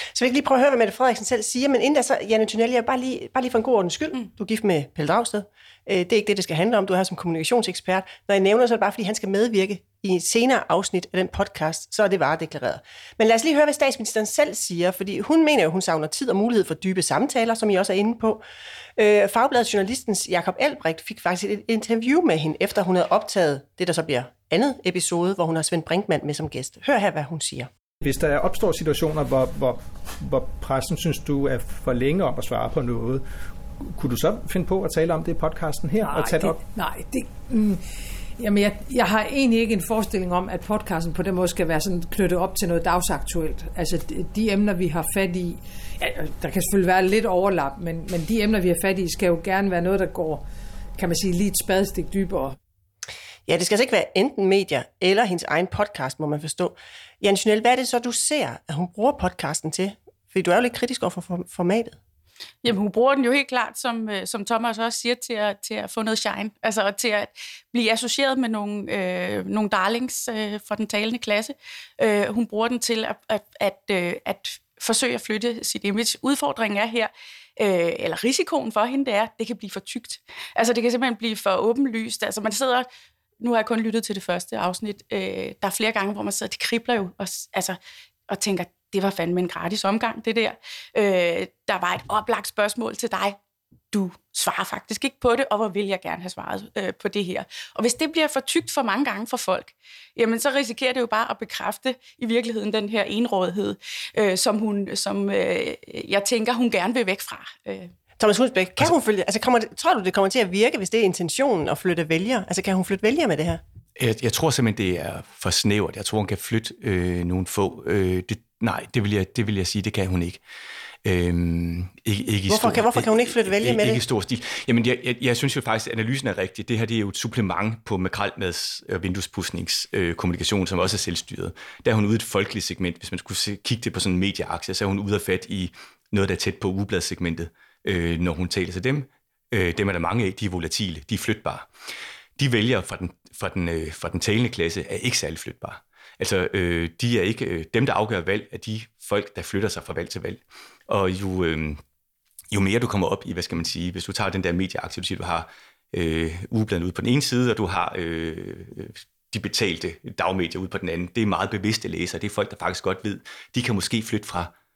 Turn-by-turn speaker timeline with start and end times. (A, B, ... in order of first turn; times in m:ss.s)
0:00.1-0:18.4 A
0:19.0-0:27.7 A
0:28.0-0:33.2 B
0:33.8-0:36.6 B
0:36.0-0:37.8 C
0:38.4-0:50.4 C
0:51.0-0:52.5 C
0:53.5-1:02.0 A
1:02.6-1:22.9 D
1:23.4-1:33.4 D
1:33.9-1:47.9 D
1:48.2-1:53.6 A
1:54.0-2:00.4 E
2:01.0-2:21.7 E
2:02.5-2:04.0 A
2:22.4-2:31.8 E
2:32.5-2:44.5 E